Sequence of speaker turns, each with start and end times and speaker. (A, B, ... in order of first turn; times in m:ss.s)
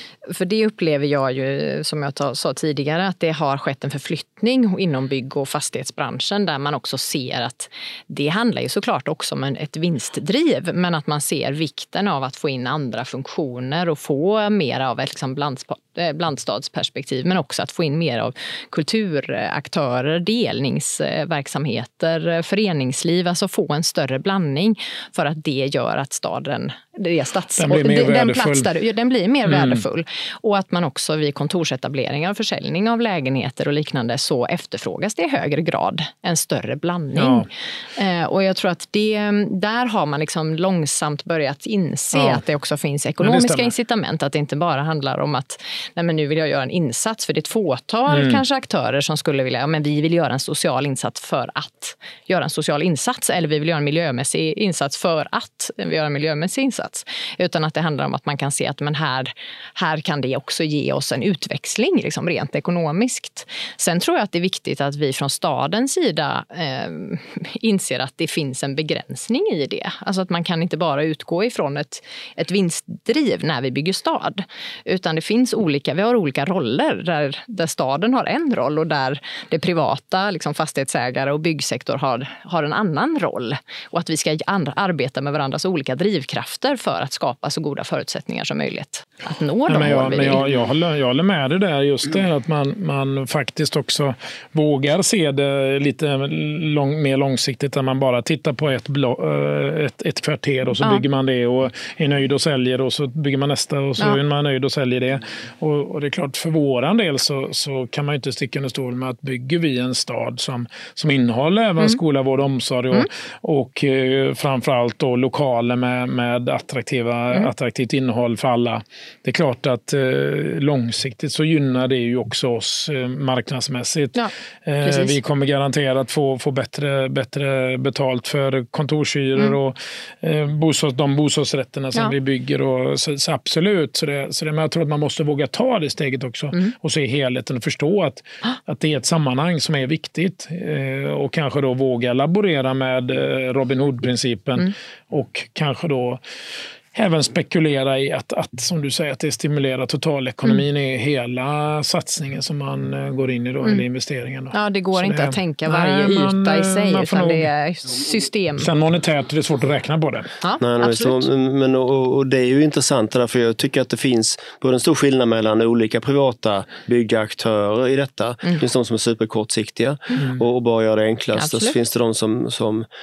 0:00.3-1:30.4 A
0:27.6-0:28.7 B
0:29.5-0:29.8 B
0:37.2-0:37.5 B
0:42.1-0:42.4 B
0:43.2-0:43.7 B
0:48.1-0:48.4 B
1:29.7-2:26.2 B
2:04.8-2:05.2 A
2:26.9-2:37.5 B
2:34.5-2:38.7 A
2:38.6-2:40.3 B
2:40.4-2:41.3 A
2:40.6-2:52.9 C
2:51.3-2:51.8 A